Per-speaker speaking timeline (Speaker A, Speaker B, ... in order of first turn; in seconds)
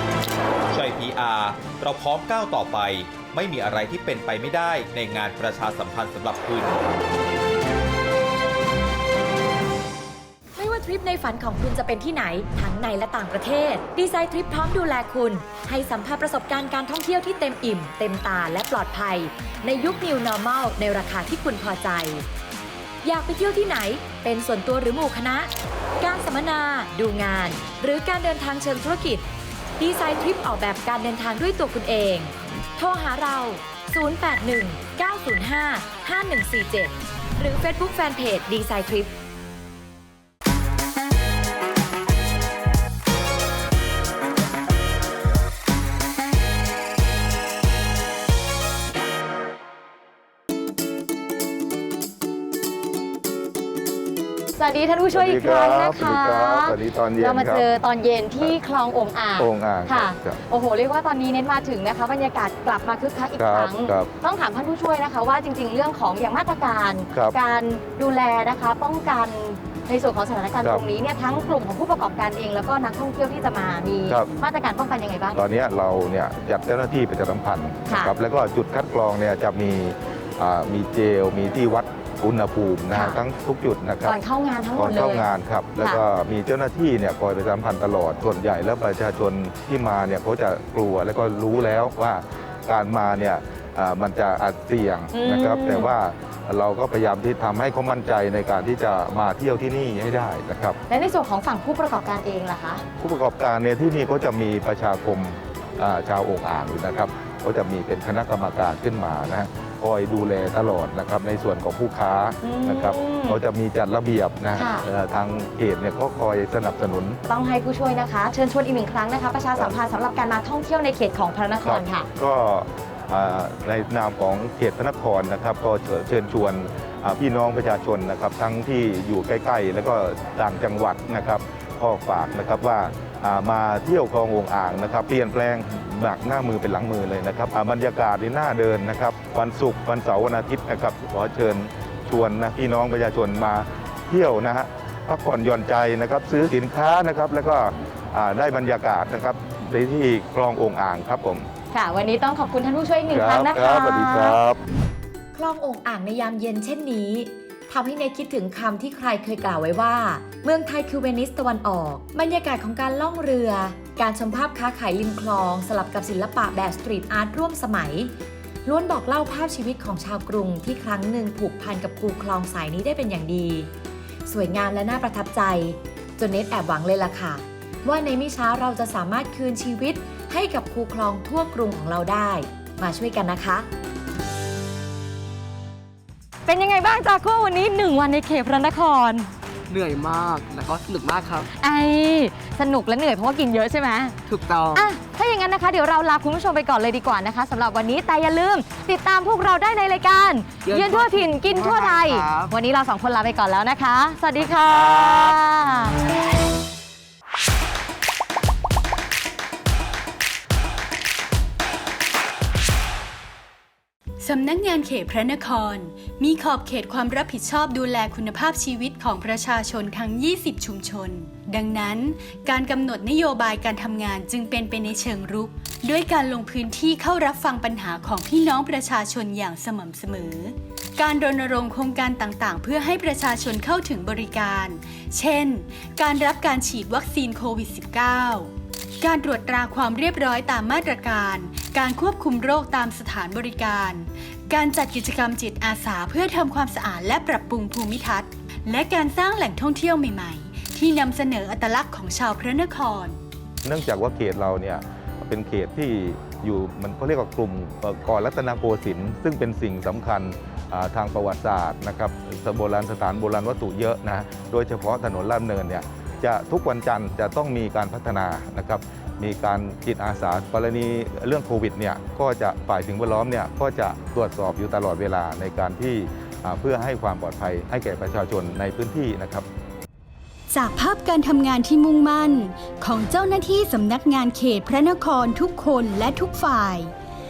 Speaker A: 0.7-6.9
Speaker B: 10.6-22.3, 23.0-29.2, 29.8-39.1, 155.3-168.1, 168.7-173.7, 174.3-183.7
Speaker C: 54.5-75.4, 77.9-78.1, 82.9-83.2, 84.0-85.3, 95.1-95.9, 100.9-102.8, 112.4-113.4, 114.5-114.8, 117.3-122.1, 151.7-154.4, 186.5-189.3, 191.6-194.2, 194.7-205.9
Speaker D: 55.1-57.7, 59.4-60.4, 63.4-64.1, 75.3-84.2, 84.8-100.8, 103.0-117.2, 121.7-151.5, 153.1-154.6, 253.6-279.5
Speaker E: 189.7-191.5, 194.3-194.9, 200.6-202.5
Speaker F: 214.2-253.2, 280.5-286.9